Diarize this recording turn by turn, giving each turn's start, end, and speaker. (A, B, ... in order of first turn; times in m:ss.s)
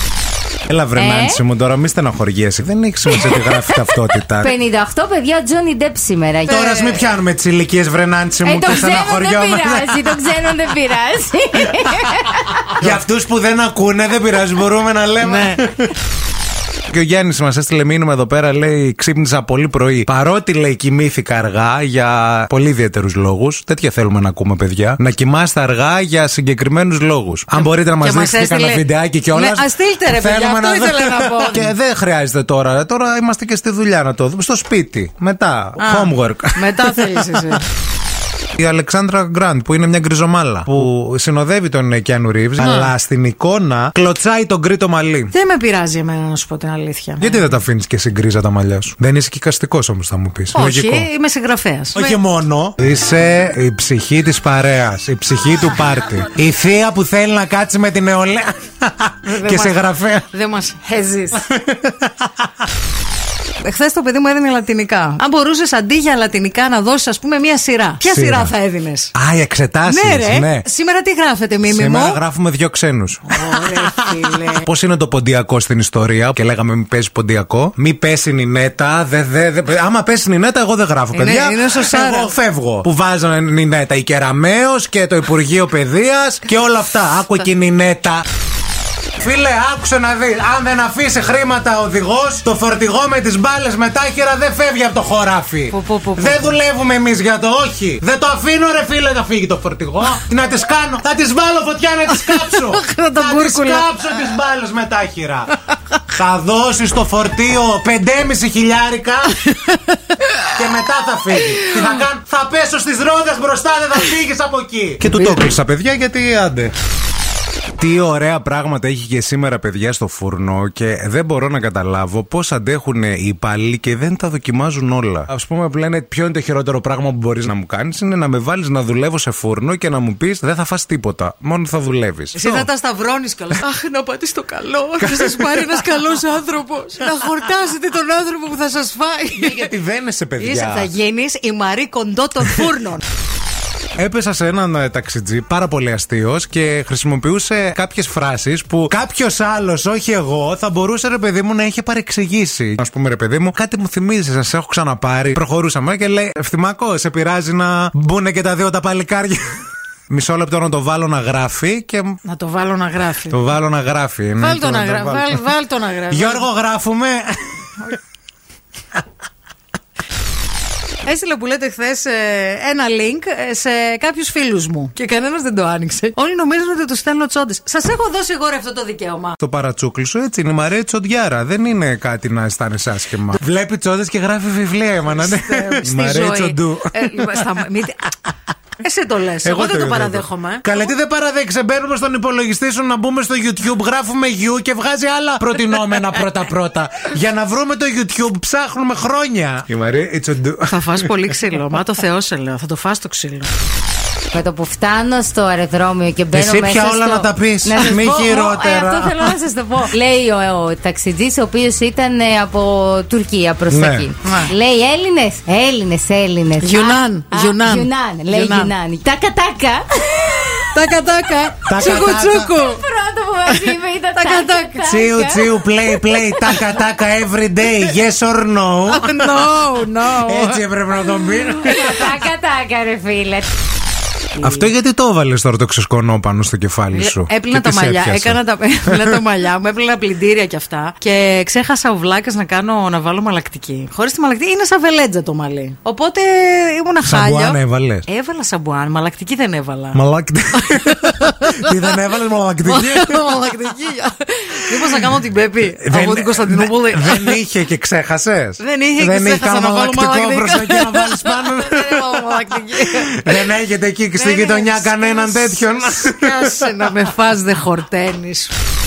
0:00.7-0:04.5 A
0:01.0-0:01.4 B
0:03.3-0:03.8 B
0:04.4-0:06.8 B
0:06.4-0:10.2 A
0:06.5-0:06.8 C
0:08.4-0:12.7 B
0:12.8-0:15.9 A
0:15.2-0:15.6 C
0:16.9-0:37.6 A
0:27.5-0:31.7 C
0:35.8-0:37.6 C
0:38.6-0:45.3 A
0:42.6-0:42.9 C
0:45.3-0:47.4 C
0:47.2-0:51.1 A
0:50.5-0:52.2 C
0:51.9-1:00.3 A
0:59.2-0:59.8 C
1:00.3-1:01.4 C
1:01.3-1:02.3 A
1:03.6-1:09.1 C
1:08.0-1:08.5 A
1:09.1-1:10.6 A
1:09.8-1:12.2 C
1:11.6-1:28.2 A
1:13.3-1:14.6 C
1:21.1-1:22.3 C
1:29.2-1:45.5 A
1:35.7-1:36.6 C
1:42.2-1:43.8 C
1:46.1-1:49.4 A
1:49.4-1:50.5 C
1:50.5-1:56.7 A
1:51.5-1:52.0 C
1:55.1-1:55.5 C
1:57.8-2:12.7 A
2:12.3-2:19.7 C
2:15.0-2:15.8 A
2:19.3-2:20.9 A
2:20.4-2:23.0 C
2:24.0-2:42.2 A
2:42.2-2:43.4 C
2:43.3-2:45.5 A
2:44.4-2:46.4 C
2:46.1-2:47.6 A
2:51.1-2:59.4 C
2:59.4-3:07.4 A
3:05.1-3:08.1 C
3:08.8-3:10.8 C
3:09.4-3:21.4 A
3:20.6-3:23.5 C
3:24.3-3:40.7 B
3:26.3-3:29.3 A
3:29.3-3:29.9 C
3:33.7-3:34.1 A
3:34.2-3:34.5 C
3:36.6-3:38.7 C
3:40.7-3:42.8 C
3:41.7-3:42.5 A
3:42.6-3:45.5 B
3:43.5-3:44.8 C
3:44.8-3:49.5 A
3:48.9-3:50.6 C
3:50.1-3:52.1 A
3:51.6-3:53.4 B
3:54.4-3:58.4 A
3:56.9-4:10.0 C
3:58.9-3:59.2 A
4:07.0-4:08.0 A
4:09.9-4:13.2 A
4:10.6-4:11.8 C
4:12.6-4:17.4 C
4:14.7-4:15.0 A
4:15.8-4:26.6 A
4:18.6-4:23.4 C
4:24.2-4:28.5 C